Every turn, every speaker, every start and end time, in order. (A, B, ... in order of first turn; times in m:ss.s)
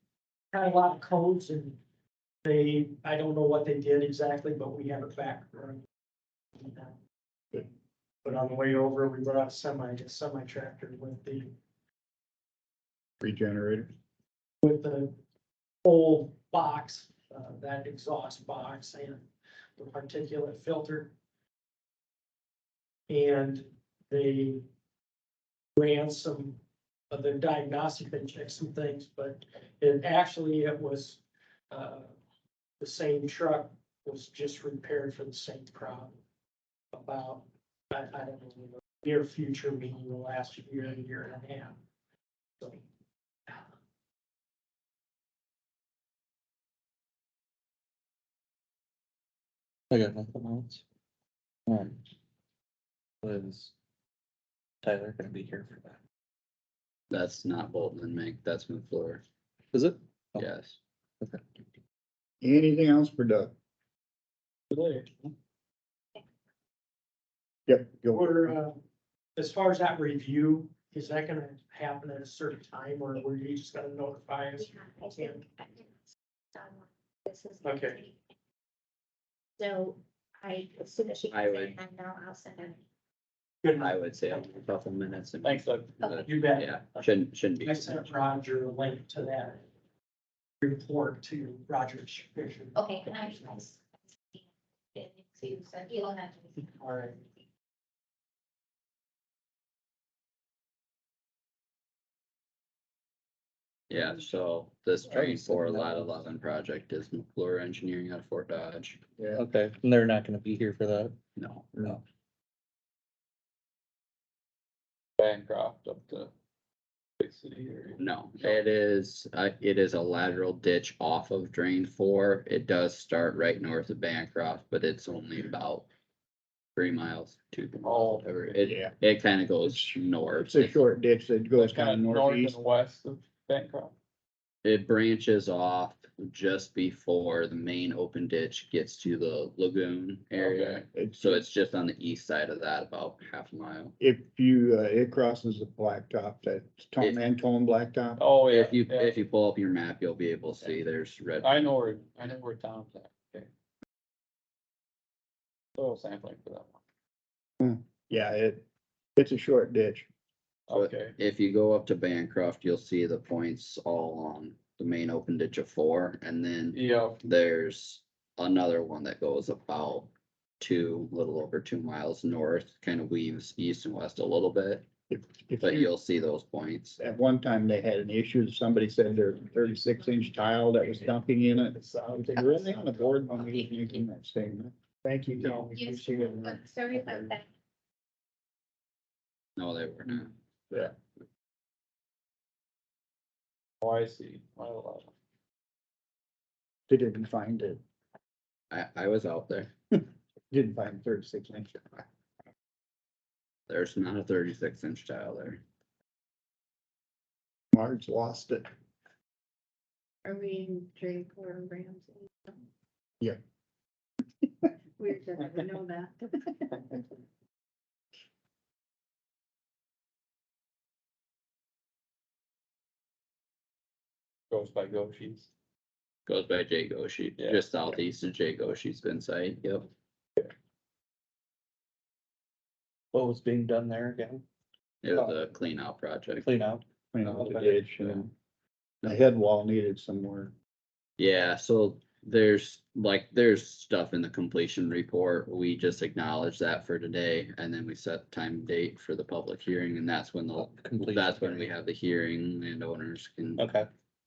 0:00.5-0:01.8 A
0:02.4-0:05.8 A
0:06.6-0:06.9 A
0:08.2-0:11.5 A
0:13.2-0:13.9 B
0:14.6-0:15.1 A
0:15.8-0:21.1 A
0:23.1-0:24.6 A
0:25.8-0:32.1 A
0:32.8-0:36.1 A
0:36.9-0:41.8 A
0:49.9-0:50.8 C
0:51.7-0:52.0 C
0:53.2-0:53.7 C
0:54.8-0:56.0 C
0:57.1-0:59.2 D
0:59.7-1:00.5 C
1:00.4-1:00.8 D
1:02.4-1:03.5 B
1:04.7-1:05.1 E
1:07.7-1:08.6 B
1:08.1-1:08.8 A
1:09.4-1:15.4 A
1:14.6-1:15.9 F
1:16.5-1:18.2 F
1:17.6-1:18.0 A
1:19.6-1:22.8 F
1:21.3-1:21.8 D
1:23.6-1:24.0 A
1:23.8-1:28.1 D
1:25.4-1:26.0 E
1:26.2-1:27.0 A
1:27.6-1:29.6 A
1:30.6-1:32.8 A
1:32.7-1:33.8 F
1:35.0-1:36.8 F
1:36.8-1:37.2 A
1:43.9-1:49.0 D
1:45.1-1:46.1 C
1:49.2-1:49.4 B
1:49.3-1:51.2 C
1:51.4-1:51.7 D
1:55.2-1:56.3 E
1:57.2-1:58.6 E
1:58.0-2:05.9 D
2:06.8-2:10.8 D
2:07.8-2:08.3 E
2:08.6-2:08.9 B
2:09.7-2:12.6 B
2:11.5-2:13.9 E
2:14.6-2:23.9 D
2:20.3-2:20.8 E
2:20.9-2:21.4 B
2:24.0-2:28.2 B
2:28.2-2:29.2 E
2:28.5-2:31.5 D
2:31.4-2:33.5 E
2:35.8-2:36.8 E
2:37.6-2:38.6 B
2:39.2-2:40.1 B
2:40.7-2:41.2 E
2:40.7-2:54.9 D
2:46.7-2:47.2 E
2:55.1-2:55.9 B
2:55.6-2:57.0 D
2:57.0-3:07.3 B
3:05.7-3:07.4 F
3:09.6-3:10.3 D
3:13.8-3:15.1 E
3:16.9-3:17.8 B
3:18.7-3:19.7 D
3:20.5-3:22.0 B
3:23.7-3:25.6 D
3:27.7-3:28.6 B
3:30.2-3:32.5 F
3:35.0-3:36.5 F
3:44.5-3:45.5 E
3:46.2-3:49.9 D
3:47.4-3:47.6 E
3:53.1-3:54.4 C
3:55.0-3:56.5 D
3:56.4-3:56.8 C
3:57.1-3:58.3 B
3:57.4-3:57.7 C
3:57.7-3:58.3 D
3:59.0-4:00.5 B
4:01.2-4:13.7 D
4:10.6-4:11.7 C
4:13.6-4:13.9 C